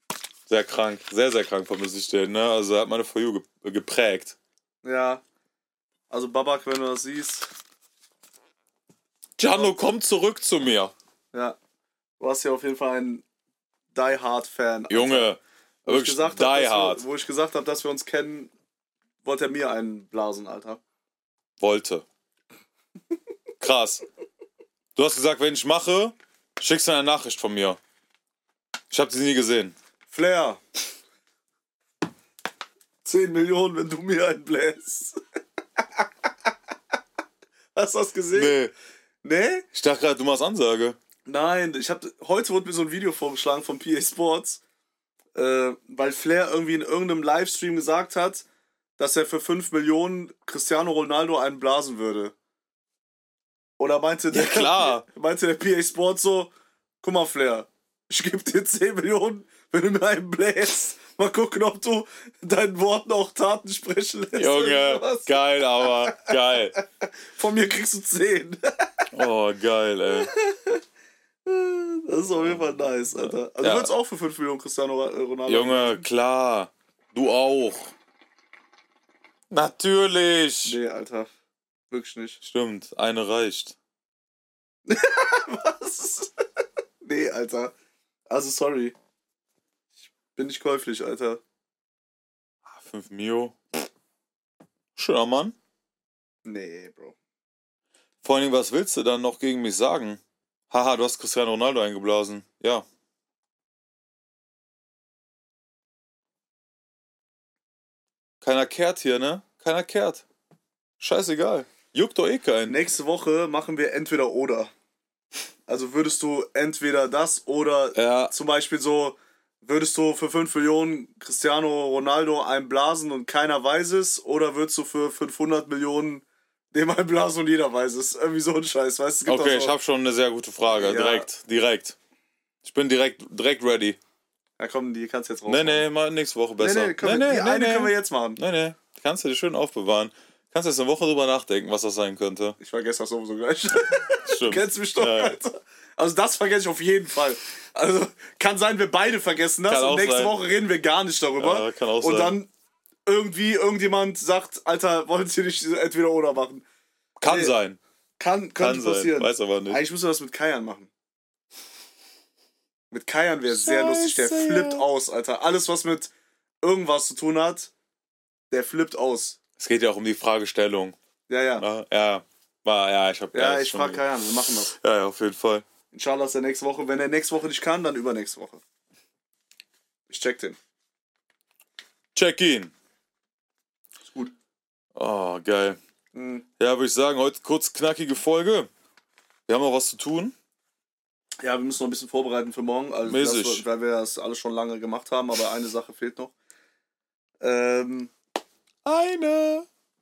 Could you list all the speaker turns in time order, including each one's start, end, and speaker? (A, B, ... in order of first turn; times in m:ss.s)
0:00.5-0:04.4 A
0:04.8-0:05.2 B
0:06.1-0:07.5 B
0:09.4-0:10.9 A
0:09.5-0:09.8 B
0:12.2-0:13.2 B
0:13.9-0:15.3 B
0:14.9-0:17.0 A
0:15.8-0:18.5 B
0:19.2-0:20.8 B
0:21.6-0:22.0 A
0:23.6-0:24.0 A
0:24.9-0:27.8 A
0:28.9-0:29.7 A
0:30.1-0:30.6 B
0:33.0-0:35.2 B
0:37.7-0:38.6 B
0:38.3-0:38.7 A
0:39.2-0:39.6 B
0:39.7-0:41.0 A
0:41.2-0:44.6 B
0:45.4-0:48.4 B
0:49.0-0:52.3 B
0:53.8-1:09.1 B
0:54.3-0:55.0 A
1:04.4-1:06.8 A
1:09.1-1:10.3 A
1:10.2-1:10.8 B
1:11.4-1:16.0 B
1:12.4-1:13.9 A
1:15.5-1:17.9 A
1:19.5-1:20.8 A
1:20.6-1:21.3 B
1:21.9-1:22.4 B
1:22.4-1:23.8 A
1:24.9-1:26.3 B
1:27.0-1:27.7 B
1:28.3-1:28.9 B
1:30.3-1:31.4 B
1:32.6-1:33.6 A
1:35.0-1:35.6 A
1:36.4-1:37.1 B
1:38.2-1:42.8 A
1:48.4-1:50.2 A
1:51.0-1:52.8 A
1:52.7-1:54.7 B
1:55.7-2:09.7 B
1:57.9-1:58.3 A
2:09.2-2:12.0 A
2:10.7-2:11.3 B
2:12.6-2:14.0 A
2:14.6-2:15.9 B
2:15.5-2:22.6 A
2:16.6-2:18.4 B
2:22.6-2:32.5 B
2:24.2-2:25.4 A
2:29.7-2:30.3 A
2:31.4-2:32.4 A
2:33.0-2:36.6 B
2:37.2-2:37.8 A
2:37.3-2:37.5 B
2:38.2-2:40.9 B
2:38.6-2:39.8 A
2:42.9-2:47.7 B
2:43.5-2:44.8 A
2:48.5-2:49.4 B
2:49.6-2:51.0 A
2:51.3-2:51.6 B
2:51.6-2:54.0 A
2:53.3-2:54.7 B
2:54.7-2:55.6 A
2:55.9-2:58.6 B
3:00.1-3:00.6 B
3:02.1-3:02.7 A
3:04.0-3:04.3 B
3:04.9-3:05.8 A
3:06.1-3:06.4 B
3:06.6-3:08.7 A
3:09.5-3:10.3 A
3:11.4-3:16.3 B
3:13.0-3:13.6 A
3:17.4-3:18.1 B
3:18.8-3:19.7 A